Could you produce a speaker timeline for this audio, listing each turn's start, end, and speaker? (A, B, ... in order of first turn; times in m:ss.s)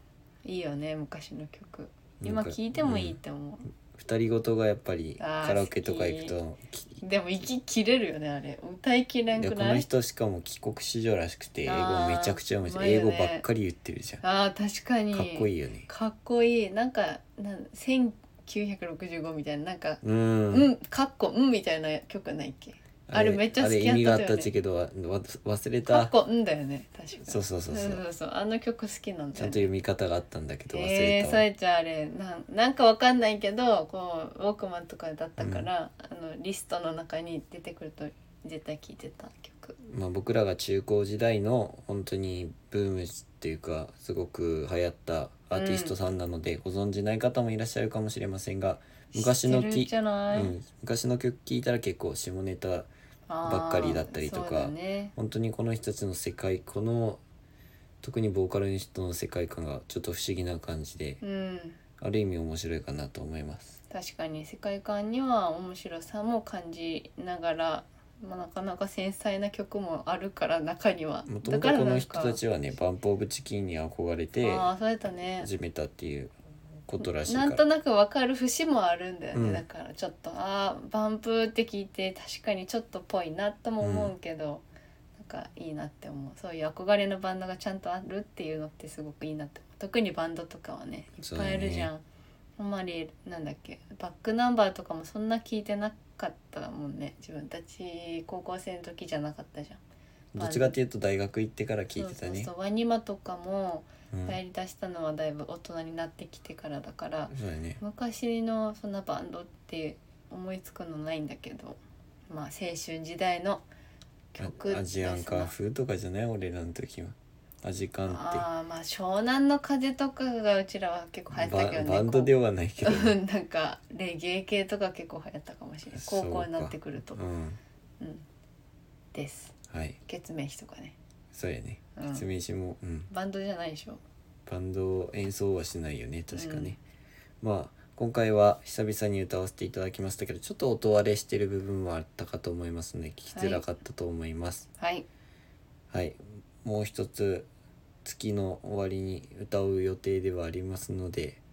0:00.4-0:03.7 A
0:02.2-0:03.2 B
0:03.9-0:07.0 B
0:05.2-0:06.3 A
0:07.0-0:09.8 A
0:09.4-0:14.2 B
0:11.6-0:13.4 A
0:14.2-0:20.0 A
0:15.1-0:15.9 B
0:20.0-0:20.7 B
0:20.5-0:24.5 A
0:23.1-0:26.1 B
0:25.9-0:29.7 A
0:27.2-0:28.0 B
0:29.4-0:31.5 B
0:30.7-0:39.8 A
0:35.4-0:35.7 B
0:39.8-0:52.9 B
0:45.5-0:46.0 A
0:49.1-0:50.5 A
0:53.3-0:55.1 A
0:53.4-0:57.2 B
0:58.0-1:01.2 B
1:01.2-1:01.8 A
1:02.0-1:03.8 B
1:03.9-1:12.4 A
1:11.2-1:14.7 B
1:14.4-1:15.5 A
1:15.4-1:16.3 B
1:16.8-1:17.6 B
1:17.0-1:24.6 A
1:19.3-1:19.6 B
1:23.8-1:24.1 B
1:25.2-1:32.0 A
1:31.2-1:31.9 B
1:32.6-1:39.8 A
1:40.3-1:42.5 B
1:40.4-1:40.8 A
1:41.9-1:53.6 A
1:44.1-1:44.4 B
1:47.3-1:47.8 B
1:54.3-1:55.5 A
1:54.4-1:58.4 B
1:58.1-2:07.2 A
2:01.3-2:03.2 B
2:06.0-2:07.6 B
2:08.0-2:08.2 A
2:09.1-2:10.9 A
2:09.7-2:10.0 B
2:11.3-2:13.1 B
2:12.0-2:12.2 A
2:13.1-2:14.0 A
2:14.4-2:16.8 B
2:16.3-2:16.8 A
2:17.4-2:24.7 B
2:23.3-2:23.6 A
2:24.8-2:25.0 A
2:25.9-2:27.5 B
2:28.0-2:31.4 B